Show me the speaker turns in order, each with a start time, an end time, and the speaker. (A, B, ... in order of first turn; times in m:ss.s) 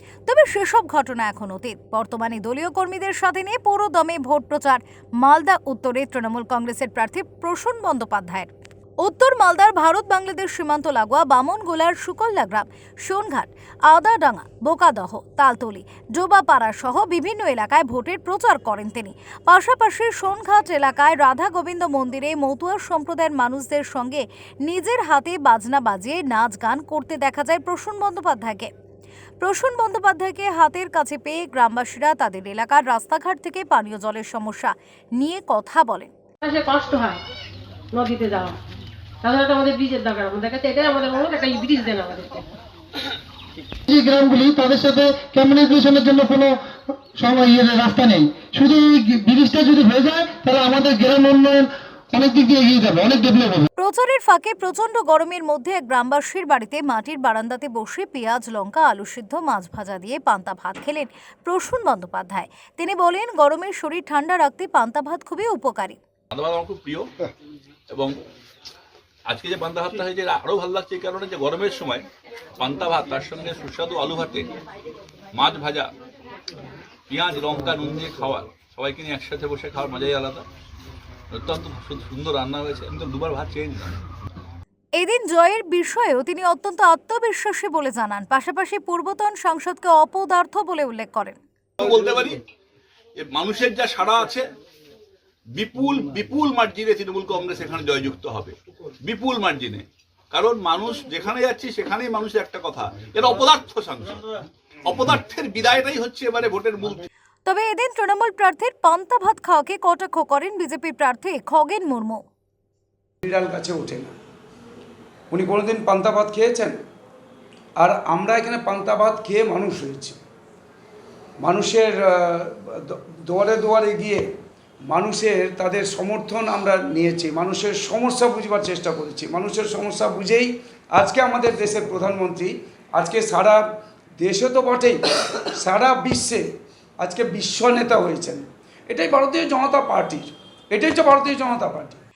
0:00.3-0:08.5 A
0:09.0-0:28.7 A
0:29.4-0:36.1 A
0:36.4-0:37.2 B
0:37.9-0:38.6 B
0:39.2-0:42.5 B
0:43.9-0:53.7 C
0:53.8-1:06.0 A
1:06.3-1:07.1 D
1:09.3-1:12.0 D
1:12.6-1:14.5 D
1:15.3-1:15.9 D
1:17.1-1:20.4 D
1:21.3-1:24.0 D
1:25.0-1:31.4 A
1:31.8-1:32.4 D
1:33.2-1:34.5 D
1:35.6-1:44.3 D
1:44.9-1:47.1 D
1:47.5-1:52.2 A
1:53.2-1:54.1 E
1:55.3-1:56.8 E
1:57.8-2:00.2 E
2:01.4-2:04.3 E
2:04.9-2:13.6 E
2:14.2-2:15.0 E
2:15.6-2:16.4 E
2:17.0-2:22.0 E